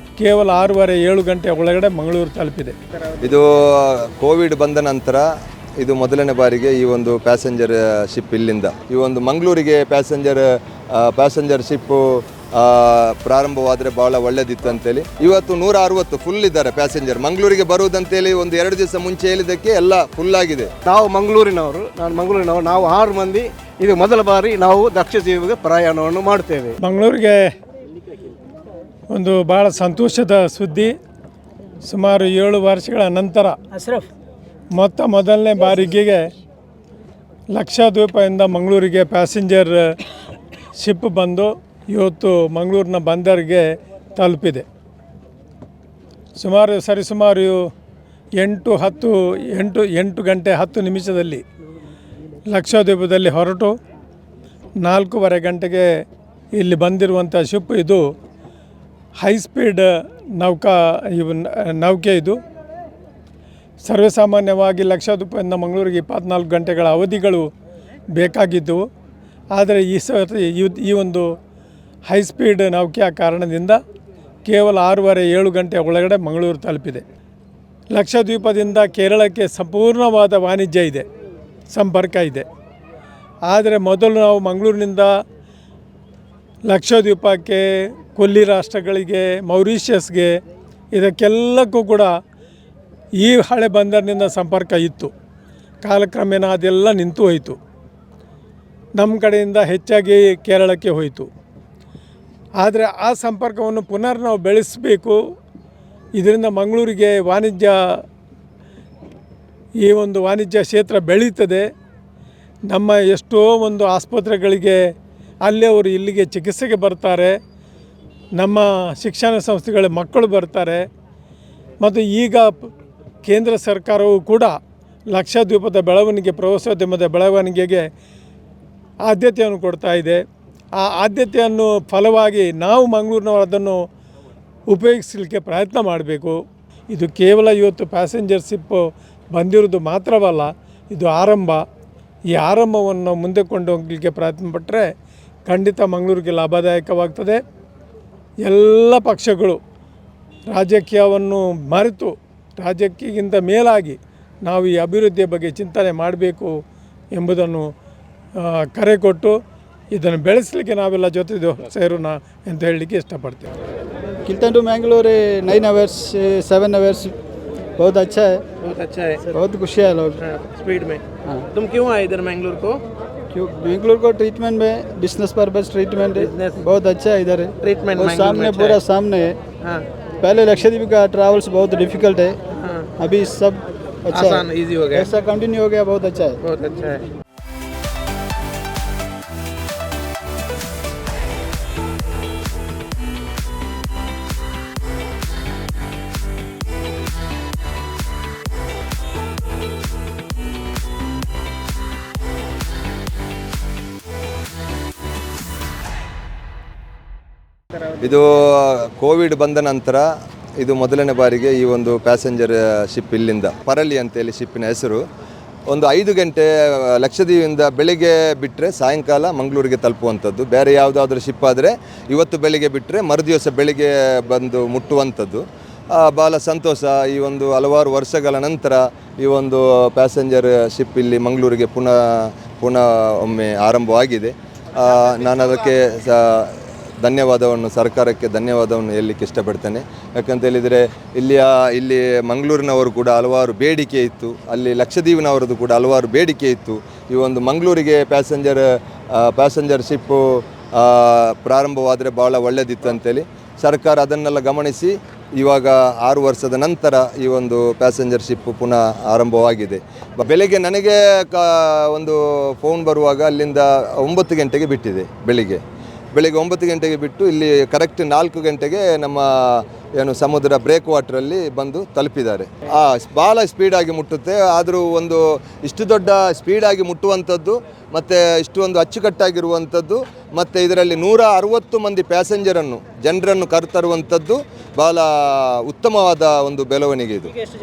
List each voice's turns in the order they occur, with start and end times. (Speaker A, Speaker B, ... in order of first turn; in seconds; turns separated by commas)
Speaker A: 0.2-2.8, Speaker B: 3.2-5.2, Speaker B: 5.8-20.7, Speaker C: 20.9-26.8, Speaker A: 26.8-27.4, Speaker A: 29.1-30.9, Speaker A: 31.9-34.0, Speaker A: 34.8-36.2, Speaker A: 37.5-39.8, Speaker A: 40.7-44.7, Speaker A: 46.4-47.6, Speaker A: 48.4-51.4, Speaker A: 52.5-53.7, Speaker A: 54.8-55.9, Speaker A: 56.6-58.0, Speaker A: 59.2-59.9, Speaker A: 60.4-62.4, Speaker A: 63.8-67.5, Speaker A: 68.2-68.8, Speaker A: 69.5-71.3, Speaker A: 72.1-73.8, Speaker A: 74.5-77.0, Speaker A: 77.9-81.0, Speaker A: 81.7-82.5, Speaker A: 83.5-85.1, Speaker A: 86.7-90.3, Speaker A: 90.9-92.1, Speaker A: 93.2-95.1, Speaker A: 95.8-97.6, Speaker A: 99.0-101.3, Speaker A: 102.6-105.2, Speaker A: 106.2-107.8, Speaker A: 109.8-111.7, Speaker A: 112.7-114.8, Speaker A: 115.5-117.4, Speaker A: 118.4-120.8, Speaker A: 121.8-122.6, Speaker A: 123.3-124.5, Speaker A: 125.1-127.8, Speaker A: 129.1-130.2, Speaker A: 130.8-133.8, Speaker A: 134.7-136.4, Speaker A: 136.9-138.8, Speaker A: 139.3-141.6, Speaker A: 142.3-144.8, Speaker A: 145.5-147.4, Speaker A: 148.4-149.6, Speaker A: 150.5-156.5, Speaker A: 157.1-157.6, Speaker A: 158.7-159.3, Speaker A: 159.9-163.5, Speaker D: 164.2-167.2, Speaker D: 167.8-168.4, Speaker E: 168.6-169.2, Speaker D: 169.3-170.2, Speaker E: 170.2-172.8, Speaker D: 173.3-179.4, Speaker E: 176.2-176.7, Speaker E: 177.6-178.8, Speaker D: 180.2-182.4, Speaker E: 182.6-182.9, Speaker D: 183.0-186.4, Speaker E: 184.1-185.1, Speaker E: 186.4-187.0, Speaker B: 208.0-210.0, Speaker B: 210.6-215.0, Speaker B: 215.7-225.4, Speaker B: 225.9-265.6, Speaker B: 266.1-287.4